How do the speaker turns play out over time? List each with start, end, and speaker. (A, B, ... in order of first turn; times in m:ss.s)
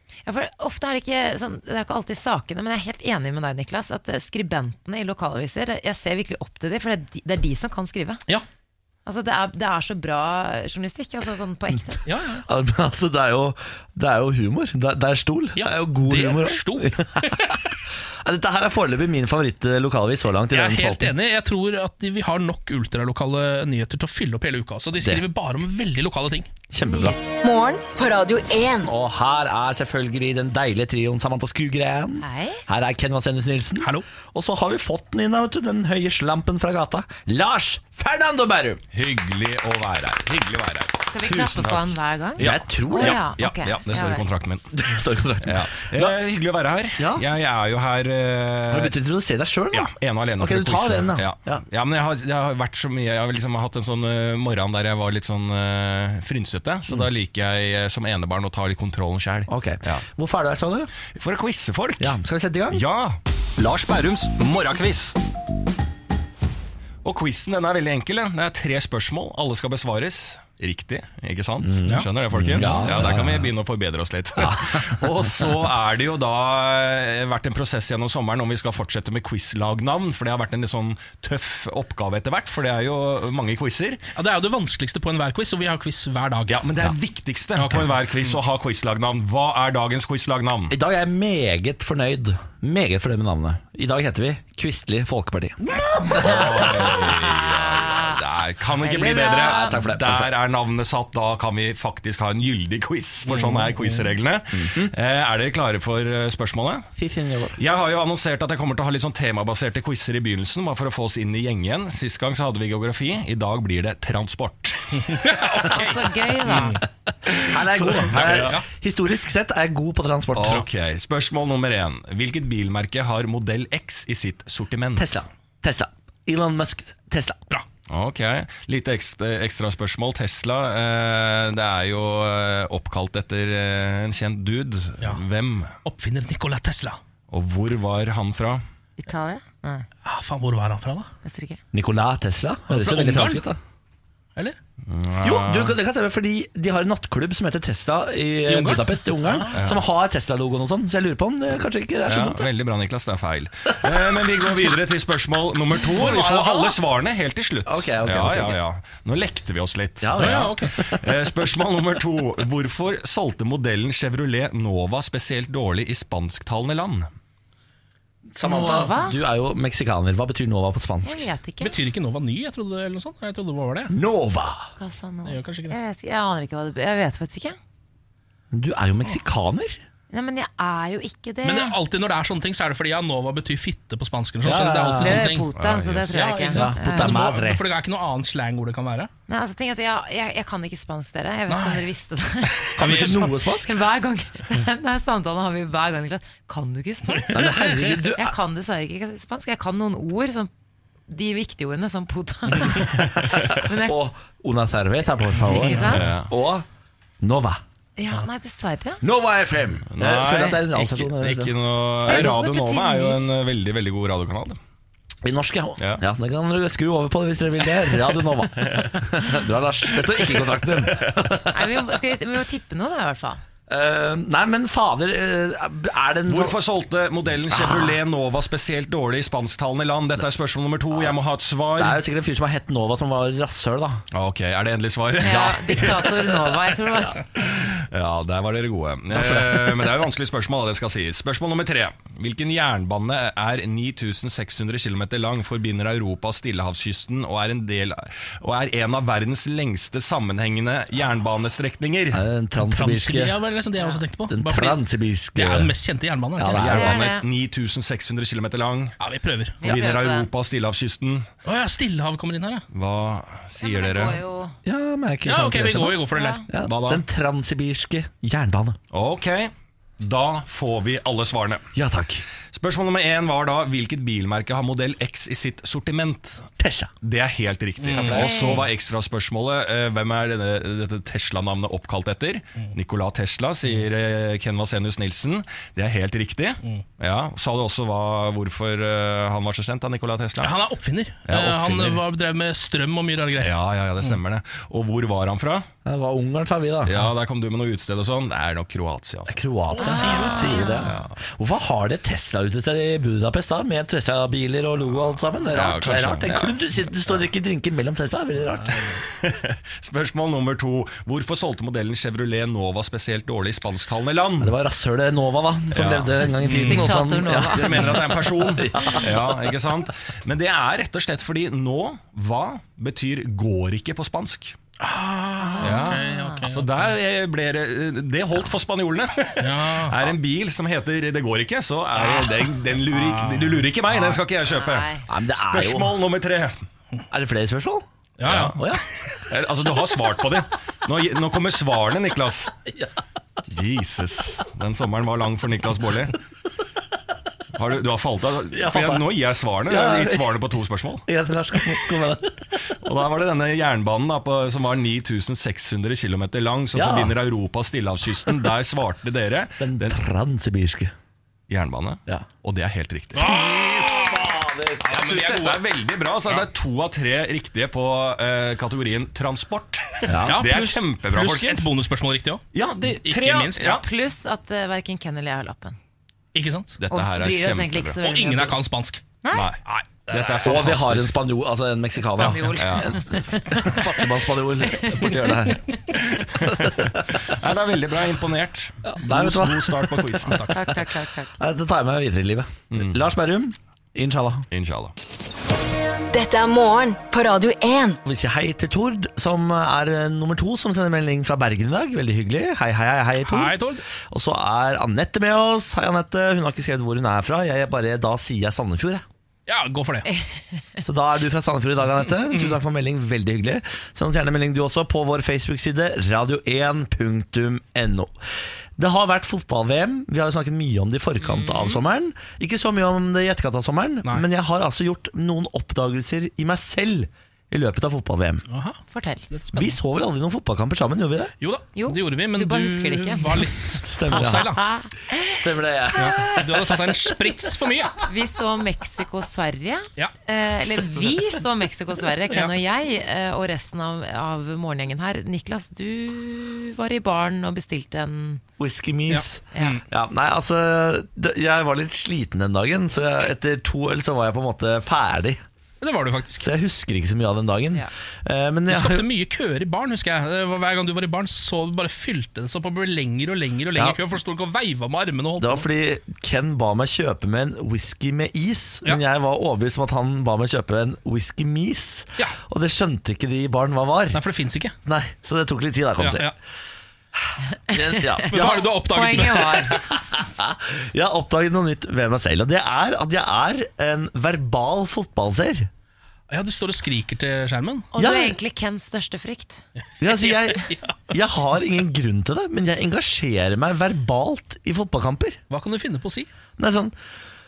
0:00.2-0:08.2 A
0:09.0-0:12.0 A
0:12.0-0:12.4 B
0:12.4-0:17.6 C
0:15.6-0:17.6 B
0:18.2-0:21.1 C
0:20.5-0:26.5 B
0:26.7-0:27.2 C
0:27.0-0:28.9 D
0:28.8-0:38.8 C
0:32.2-0:32.6 A
0:38.9-0:44.7 E
0:41.1-0:44.2 A
0:42.4-0:43.2 C
0:44.7-0:46.1 C
0:45.4-0:48.9 E
0:47.0-0:47.2 C
0:48.7-0:51.6 C
0:49.7-1:00.0 E
0:59.5-1:00.9 C
1:01.1-1:02.2 E
1:02.0-1:02.8 C
1:02.7-1:05.2 E
1:07.0-1:24.0 E
1:11.6-1:13.5 C
1:11.9-1:12.8 B
1:14.4-1:14.8 C
1:24.1-1:26.6 B
1:26.5-1:30.7 E
1:27.6-1:28.4 B
1:30.7-1:35.6 C
1:36.1-1:46.9 E
1:36.1-1:36.4 C
1:36.2-1:38.2 A
1:38.8-1:39.8 A
1:39.4-1:40.3 C
1:43.3-1:44.0 B
1:44.5-1:44.9 C
1:47.0-1:47.6 C
1:47.6-1:55.3 E
1:55.2-1:56.8 B
1:55.6-1:56.8 A
1:57.3-1:58.6 E
1:57.3-2:00.7 C
1:58.2-1:58.6 B
2:00.3-2:05.2 E
2:05.0-2:07.4 C
2:07.9-2:15.8 E
2:15.8-2:17.0 B
2:17.3-2:18.6 E
2:19.0-2:19.9 A
2:20.0-2:21.1 B
2:21.2-2:21.6 A
2:21.7-2:23.6 C
2:22.7-2:23.4 B
2:24.9-2:25.8 E
2:25.2-2:32.4 C
2:28.5-2:29.6 B
2:29.5-2:29.8 E
2:32.1-2:47.1 E
2:35.9-2:36.8 C
2:37.6-2:38.6 C
2:40.0-2:41.0 C
2:40.2-2:40.8 B
2:48.3-2:51.2 C
2:48.4-2:49.2 A
2:51.0-2:51.8 A
2:51.6-2:53.9 B
2:53.9-2:54.7 C
2:54.8-2:57.6 A
2:55.2-2:55.8 B
2:58.5-2:59.8 C
3:00.1-3:01.8 A
3:01.4-3:05.5 B
3:04.4-3:05.3 C
3:05.0-3:07.2 A
3:05.5-3:06.3 E
3:06.1-3:09.1 B
3:06.5-3:07.6 C
3:09.3-3:20.5 A
3:11.5-3:11.9 B
3:12.8-3:13.7 C
3:12.8-3:13.3 B
3:17.2-3:17.9 B
3:17.3-3:18.3 C
3:21.1-3:24.0 A
3:23.2-3:26.6 C
3:25.4-3:26.0 A
3:25.5-3:25.9 B
3:25.8-3:26.3 E
3:27.2-3:27.6 C
3:28.0-3:29.0 A
3:29.0-3:31.5 C
3:29.9-3:34.6 E
3:32.0-3:33.2 A
3:35.2-3:41.6 C
3:35.8-3:36.0 E
3:38.6-3:39.0 E
3:39.9-3:41.2 E
3:41.5-3:43.4 A
3:43.7-3:46.6 C
3:46.3-3:52.0 E
3:47.5-3:47.9 C
3:51.8-3:54.0 C
3:54.1-3:56.6 E
3:55.2-3:57.2 A
3:57.4-4:12.2 E
3:59.1-3:59.9 C
4:12.1-4:13.3 C
4:12.6-4:14.8 B
4:13.8-4:14.0 A
4:14.3-4:15.7 C
4:15.3-4:16.8 B
4:16.4-4:17.1 C
4:16.5-4:19.0 E
4:16.6-4:17.2 A
4:19.0-4:19.8 B
4:19.6-4:21.3 E
4:19.6-4:20.3 A
4:21.4-4:22.6 B
4:22.7-4:24.2 E
4:23.6-4:24.6 A
4:24.6-4:28.8 C
4:25.2-4:26.4 B
4:26.1-4:26.4 A
4:26.6-4:27.0 E
4:28.9-4:31.6 E
4:31.7-4:32.2 C
4:32.5-4:36.5 E
4:36.6-4:36.9 C
4:37.0-4:50.6 E
4:37.8-4:38.5 B
4:38.1-4:38.7 A
4:50.4-4:54.2 B
4:51.2-4:52.0 E
4:53.4-4:55.7 E
4:55.8-4:57.1 C
4:56.8-4:59.4 E
4:59.3-5:08.8 C
4:59.7-5:00.8 B
4:59.8-5:00.8 A
5:00.9-5:01.1 E
5:05.4-5:07.3 E
5:08.9-5:14.5 E
5:14.4-5:19.3 C
5:15.7-5:24.6 E
5:16.4-5:16.8 B
5:16.6-5:18.0 A
5:24.8-5:26.9 B
5:25.4-5:26.4 A
5:25.6-5:36.6 E
5:29.4-5:30.1 B
5:32.0-5:34.2 B
5:34.4-5:35.0 A
5:35.1-5:36.0 C
5:37.1-5:37.8 C
5:38.2-5:38.6 B
5:38.2-5:38.6 E
5:38.4-5:38.8 C
5:39.3-5:42.5 E
5:43.5-5:46.1 E
5:47.5-5:51.0 E
5:48.5-5:49.1 C
5:49.7-5:50.3 C
5:51.0-5:52.3 C
5:52.8-6:00.0 E
5:56.7-5:57.2 C
5:59.6-6:00.9 C
6:01.5-6:03.4 E
6:03.2-6:04.3 B
6:03.2-6:04.9 C
6:04.8-6:05.6 B
6:04.9-6:11.7 E
6:10.0-6:10.4 C
6:10.2-6:12.4 B
6:12.5-6:13.8 E
6:13.0-6:13.8 B
6:13.6-6:15.8 A
6:16.3-6:16.8 B
6:16.8-6:18.0 E
6:16.9-6:18.6 A
6:18.0-6:20.8 B
6:19.3-6:21.2 E
6:20.4-6:25.6 C
6:22.0-6:24.0 A
6:22.5-6:22.9 E
6:24.6-6:25.3 A
6:25.9-6:30.5 E
6:26.5-6:27.0 C
6:28.8-6:30.8 C
6:30.3-6:30.8 B
6:30.5-6:31.3 A
6:31.4-6:34.4 C
6:32.7-6:33.0 E
6:34.5-6:34.9 E
6:36.1-6:38.0 D
6:38.0-6:43.6 C
6:43.2-6:43.8 B
6:44.1-6:49.0 C
6:49.5-6:50.1 B
6:50.0-6:50.6 A
6:50.8-6:58.1 C
6:52.3-6:52.6 B
6:58.8-7:08.4 C
7:01.4-7:01.7 A
7:08.5-7:08.8 B
7:08.9-7:09.3 A
7:09.3-7:09.8 B
7:09.5-7:11.3 C
7:11.4-7:14.6 B
7:11.8-7:13.5 A
7:13.8-7:14.4 C
7:14.1-7:16.6 A
7:15.2-7:16.4 C
7:16.0-7:17.9 B
7:18.0-7:28.4 A
7:28.6-7:35.4 C
7:29.1-7:29.8 B
7:29.5-7:29.8 A
7:35.8-7:36.5 B
7:36.4-7:39.0 C
7:38.7-7:45.6 B
7:45.4-7:54.2 C
7:54.1-7:54.7 B
7:54.8-7:56.3 C
7:56.0-7:56.3 B
7:57.7-8:05.7 C
7:57.7-7:59.8 A
7:58.3-7:59.8 B
8:06.3-8:07.9 B
8:07.9-8:09.6 A
8:08.0-8:08.3 C
8:10.0-8:15.4 C
8:10.0-8:11.1 B
8:15.5-8:16.3 B
8:16.6-8:16.9 C